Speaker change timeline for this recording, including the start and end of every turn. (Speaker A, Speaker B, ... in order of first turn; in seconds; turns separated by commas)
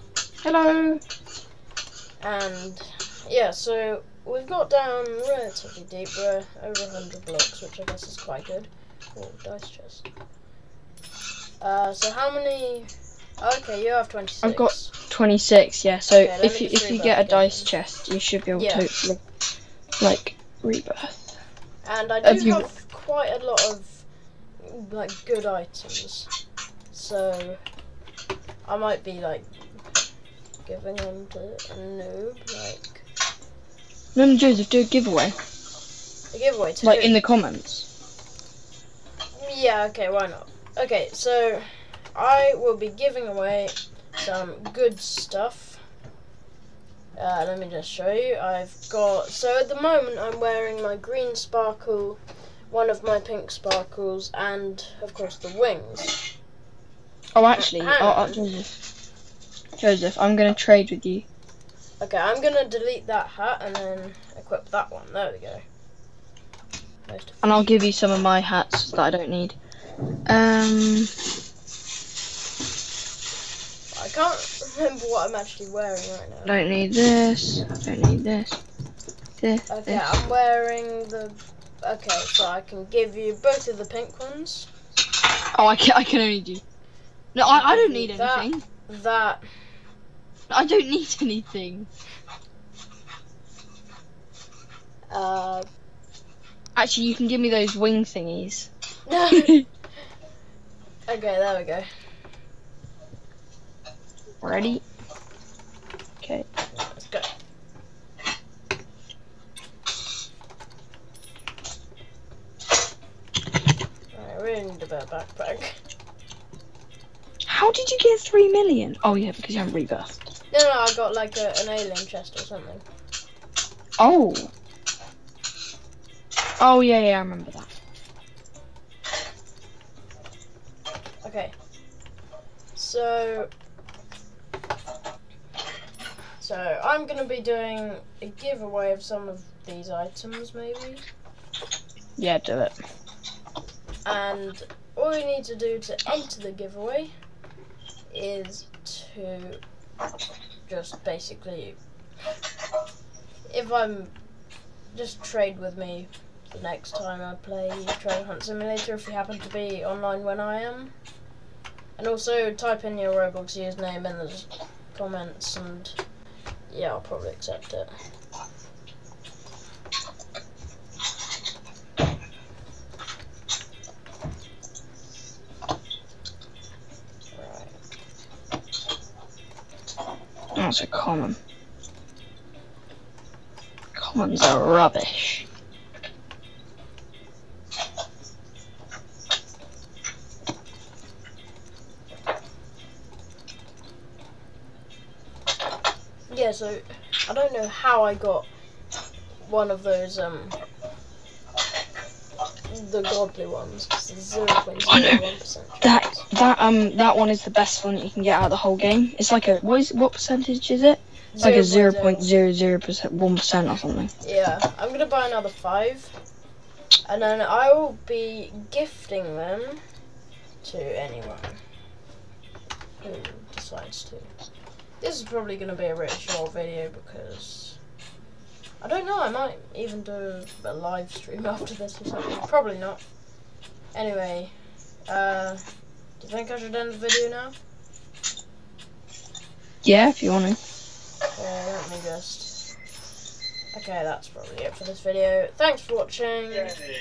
Speaker A: 0.4-1.0, Speaker B: 2.2-10.1, Speaker B: 11.6-12.9, Speaker B: 13.4-14.9, Speaker A: 14.4-19.2, Speaker B: 16.1-17.7, Speaker B: 18.5-18.9, Speaker A: 20.0-21.3, Speaker B: 21.8-24.1, Speaker A: 22.2-22.7, Speaker B: 24.6-26.3, Speaker B: 26.9-27.6, Speaker B: 28.7-29.8, Speaker B: 30.7-33.0, Speaker A: 34.1-35.4, Speaker B: 36.3-37.2, Speaker A: 36.8-37.9, Speaker B: 39.4-45.8, Speaker B: 47.2-56.2, Speaker A: 57.4-58.7, Speaker B: 57.5-58.4, Speaker A: 59.8-61.3, Speaker B: 62.0-65.6, Speaker B: 67.1-67.5, Speaker A: 67.4-69.6, Speaker A: 70.3-71.1, Speaker B: 73.9-76.6, Speaker A: 76.5-78.6, Speaker A: 79.4-80.2, Speaker B: 79.7-84.7, Speaker A: 85.5-86.6, Speaker A: 87.3-88.6, Speaker B: 87.4-89.4, Speaker A: 90.5-91.9, Speaker B: 95.1-95.7, Speaker A: 96.8-98.7, Speaker B: 99.1-99.6, Speaker A: 99.3-99.7, Speaker B: 101.1-101.9, Speaker A: 104.4-104.8, Speaker A: 106.2-106.5, Speaker B: 106.7-107.3, Speaker B: 114.1-115.8, Speaker A: 117.5-120.2, Speaker B: 120.5-122.8, Speaker A: 124.0-124.5, Speaker A: 126.6-127.7, Speaker B: 131.2-131.5, Speaker B: 132.7-133.5, Speaker B: 136.4-141.0, Speaker A: 142.2-142.8, Speaker B: 144.1-147.1, Speaker B: 148.1-149.6, Speaker B: 150.7-151.8, Speaker B: 153.5-154.1, Speaker B: 154.9-160.9, Speaker B: 162.0-166.0, Speaker B: 166.7-167.9, Speaker B: 177.3-177.8, Speaker A: 180.6-181.4, Speaker A: 183.9-185.4, Speaker B: 196.3-198.5, Speaker B: 199.5-200.6, Speaker B: 202.7-206.3, Speaker A: 204.9-205.2, Speaker A: 205.8-214.1, Speaker B: 211.3-212.3, Speaker B: 214.2-216.1, Speaker B: 217.1-219.8, Speaker B: 220.6-221.6, Speaker B: 223.0-224.3, Speaker B: 225.0-227.8, Speaker B: 228.8-233.0, Speaker B: 233.9-234.5, Speaker B: 235.1-235.6, Speaker B: 236.2-237.6, Speaker A: 239.8-240.6, Speaker B: 241.4-242.6, Speaker B: 243.7-246.8